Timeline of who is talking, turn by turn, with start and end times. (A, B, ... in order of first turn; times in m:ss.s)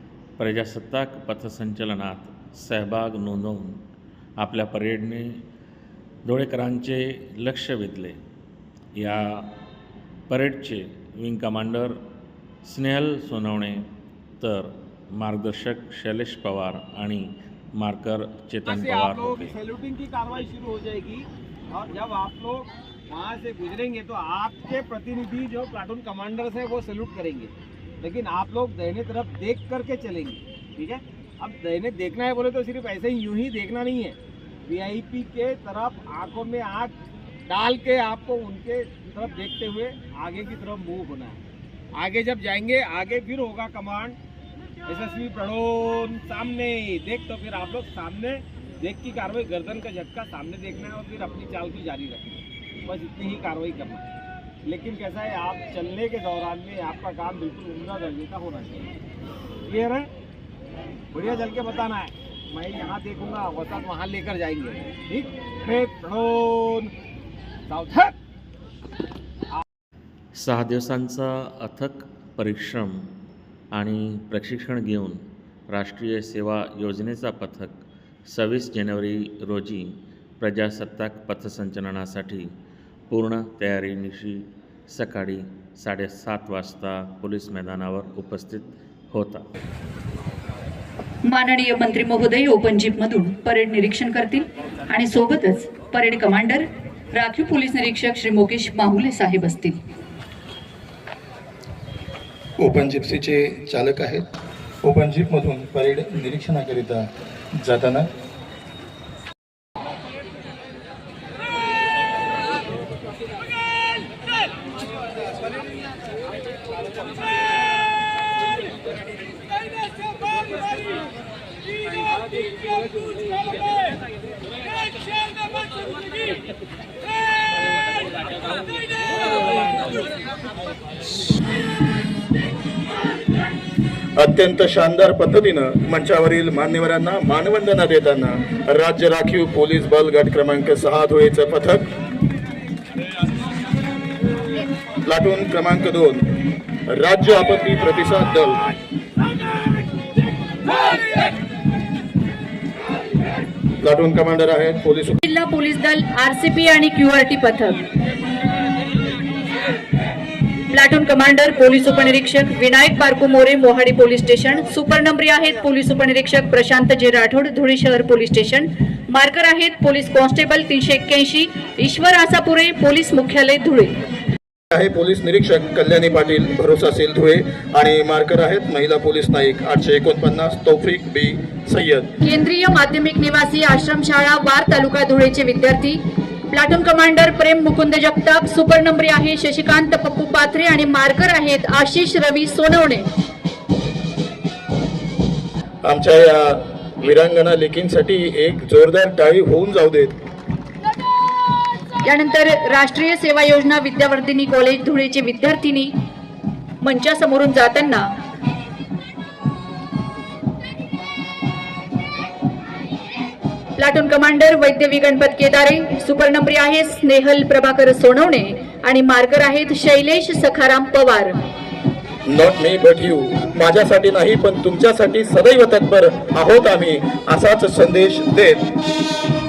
0:00.4-0:03.8 A
0:04.4-0:05.4 A
0:06.2-0:08.2 A
0:09.0-0:09.5 A
0:10.3-0:12.0 A
0:12.6-0:13.9 A
0:14.4-0:19.6 A
0:18.7-0:36.9 B
0:37.4-0:41.4 B
0:41.9-0:44.2 B
0:44.9-0:54.0 B
0:54.6-0:58.9 B
0:59.7-1:00.1 B
1:01.1-1:06.9 B
1:07.7-1:08.1 B
1:10.3-1:13.1 A
1:13.7-1:17.8 A
1:18.3-1:22.5 A
1:23.1-1:29.4 A
1:31.2-1:39.8 C
1:42.6-1:44.2 D
1:44.8-1:47.0 D
1:47.6-1:48.1 D
2:14.2-2:21.9 D
2:25.1-2:26.3 D
2:26.9-2:28.6 D
2:33.8-2:35.2 D
2:35.2-2:37.8 C
2:40.7-2:53.9 C
2:54.7-3:02.1 D
3:02.2-3:06.0 C
3:06.5-3:13.1 C
3:15.8-3:20.2 D
3:22.1-3:25.9 C
3:26.8-3:28.0 C
3:33.8-3:41.4 C
3:42.3-3:48.7 D